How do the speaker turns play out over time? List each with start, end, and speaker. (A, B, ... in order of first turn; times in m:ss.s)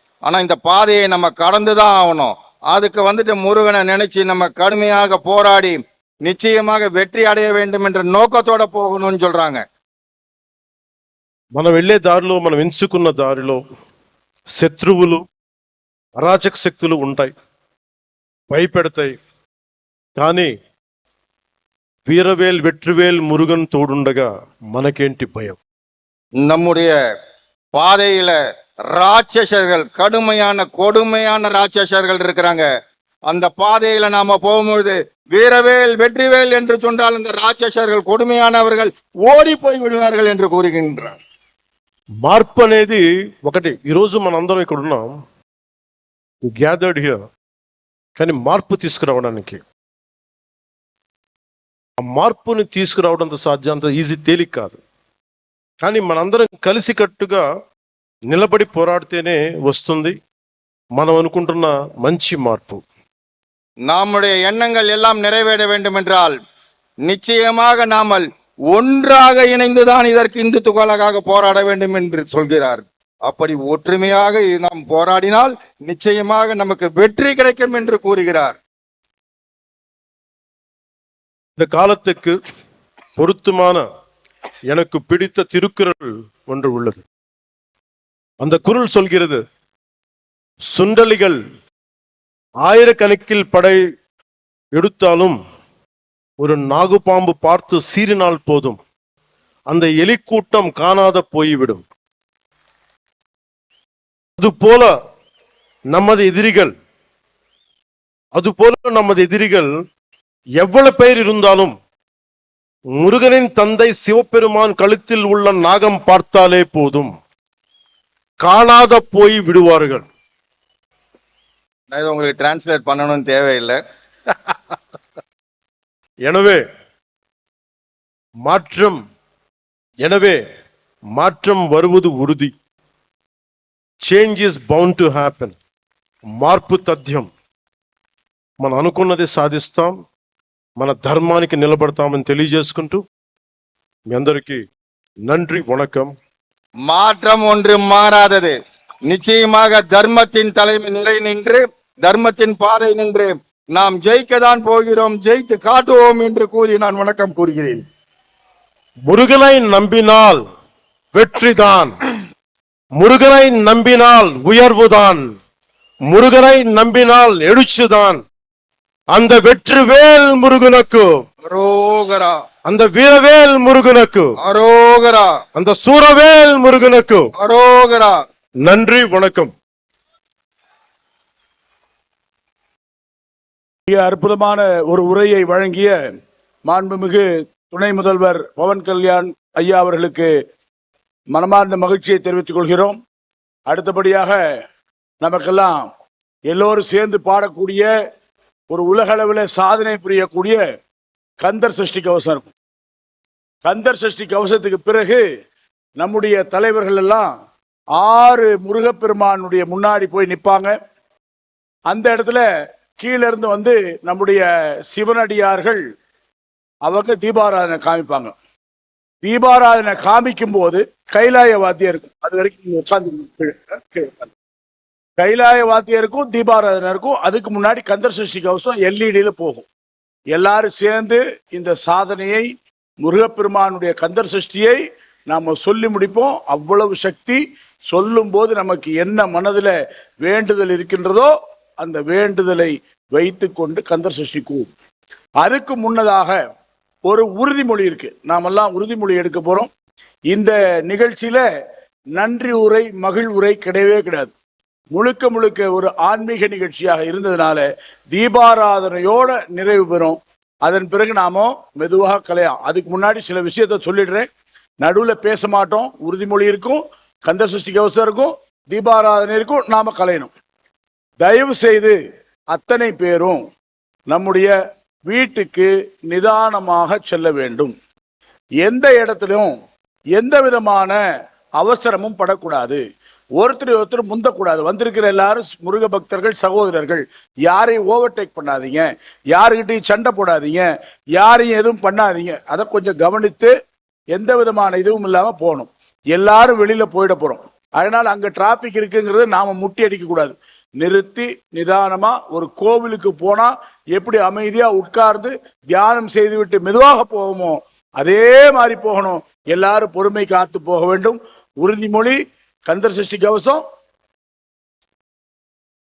0:00.2-0:09.6 A
0:11.6-0:13.6 B
0:14.6-0:15.2 B
0:16.2-0:17.3 B
0:18.5-0:19.1 B
0:20.2-0:20.5 B
0:22.1-0:25.6 B
0:26.4-0:27.0 A
0:27.7-0:28.4 A
0:28.9-0:32.7 A
0:33.3-0:41.2 A
0:42.2-0:45.1 B
0:46.4-0:47.2 B
0:48.2-0:49.6 B
0:52.0-0:54.8 B
0:55.8-0:57.4 B
0:58.3-1:00.2 B
1:01.0-1:02.8 B
1:03.9-1:06.4 A
1:07.1-1:18.6 A
1:21.6-1:22.4 B
1:23.2-1:23.8 B
1:24.7-1:27.1 B
1:28.4-1:29.4 B
1:30.7-1:31.4 B
1:32.6-1:33.8 B
1:34.8-1:35.4 B
1:36.4-1:38.8 B
1:39.7-1:41.8 B
1:44.4-1:44.9 B
1:45.9-1:46.7 B
1:48.4-1:49.7 B
1:50.6-1:51.7 B
1:53.0-1:57.1 B
1:58.4-2:00.1 B
2:01.9-2:03.8 A
2:06.3-2:06.6 B
2:08.5-2:09.0 B
2:10.0-2:10.4 B
2:11.2-2:12.5 B
2:14.0-2:15.6 B
2:16.4-2:17.3 B
2:18.6-2:20.0 B
2:20.8-2:23.0 B
2:24.1-2:24.6 B
2:25.3-2:26.1 B
2:26.9-2:28.6 A
2:29.1-2:37.9 A
2:39.1-2:40.4 B
2:41.1-2:41.9 B
2:43.0-2:45.3 B
2:46.1-2:48.2 B
2:49.1-2:51.2 B
2:51.4-2:52.4 A
2:52.7-2:54.4 B
2:54.4-2:55.3 A
2:55.6-2:57.3 B
2:57.4-2:58.2 A
2:58.6-2:59.5 B
3:03.9-3:06.0 C
3:06.7-3:10.3 C
3:11.3-3:13.0 C
3:13.7-3:14.4 C
3:15.2-3:15.9 C
3:16.5-3:17.9 C
3:18.7-3:20.6 C
3:21.4-3:22.5 C
3:23.6-3:25.2 C
3:26.0-3:27.3 C
3:28.0-3:30.7 C
3:31.9-3:32.4 C
3:33.0-3:35.8 C
3:36.9-3:38.3 C
3:39.2-3:44.3 C
3:45.2-3:49.7 C
3:50.3-3:52.5 C
3:53.0-4:04.7 C
4:05.4-4:06.4 C
4:07.1-4:09.7 C
4:10.3-4:11.4 C
4:12.2-4:14.3 C
4:14.9-4:24.3 C
4:24.8-4:30.3 C
4:31.2-4:32.0 C
4:32.5-4:33.4 C
4:34.1-4:34.5 C
4:35.1-4:37.7 C
4:38.6-4:39.5 C
4:40.2-4:41.0 C
4:41.6-4:42.8 C
4:43.4-4:53.5 C
4:54.1-5:13.6 C